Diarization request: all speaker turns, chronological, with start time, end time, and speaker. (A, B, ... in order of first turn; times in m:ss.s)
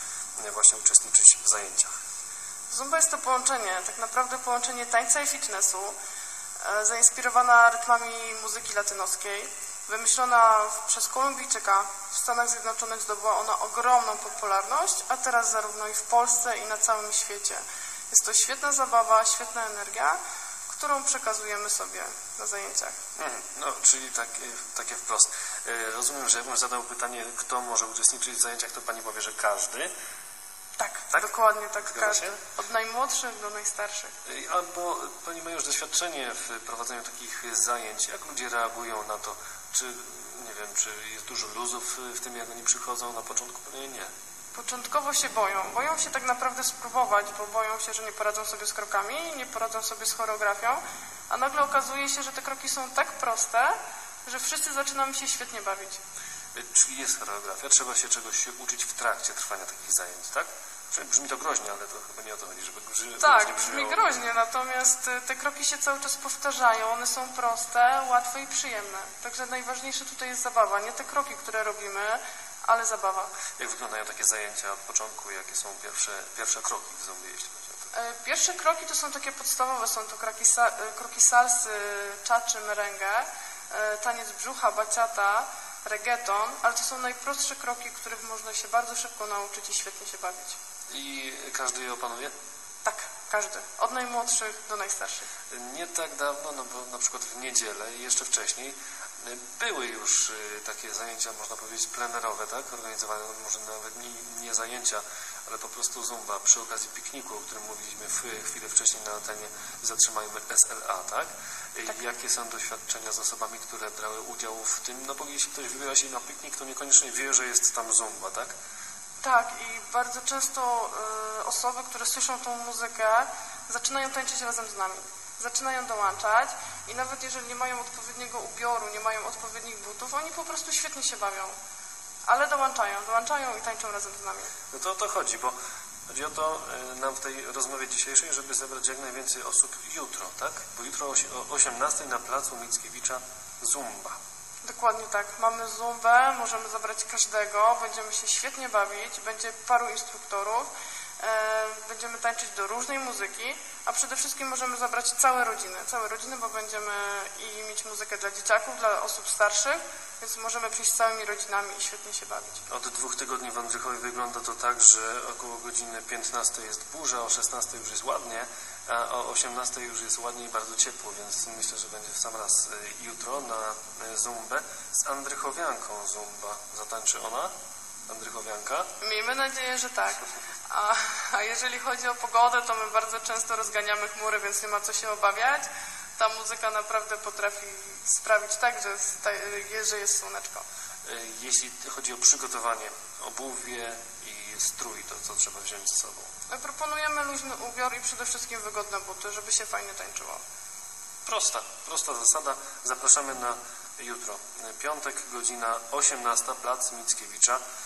0:00.4-0:02.0 A
0:02.7-0:05.9 B
0:06.6-0:20.2 B
0:20.7-0:22.9 B
0:23.2-0:29.9 A
0:30.8-0:34.1 B
0:31.8-0:32.4 A
0:34.2-0:44.1 A
0:44.5-0:56.0 B
0:56.5-1:04.1 A
1:03.2-1:13.3 B
1:13.6-1:17.8 A
1:17.9-1:30.6 B
1:30.9-1:32.3 A
1:32.8-1:35.3 B
1:35.5-1:58.5 A
1:59.2-2:11.6 B
2:12.3-2:14.5 B
2:14.7-2:15.6 A
2:16.1-2:24.2 A
2:24.6-2:42.6 B
2:42.7-2:57.5 A
2:58.1-2:58.9 A
2:59.0-3:10.6 B
3:11.0-3:16.3 A
3:16.5-3:20.4 B
3:21.2-3:27.6 A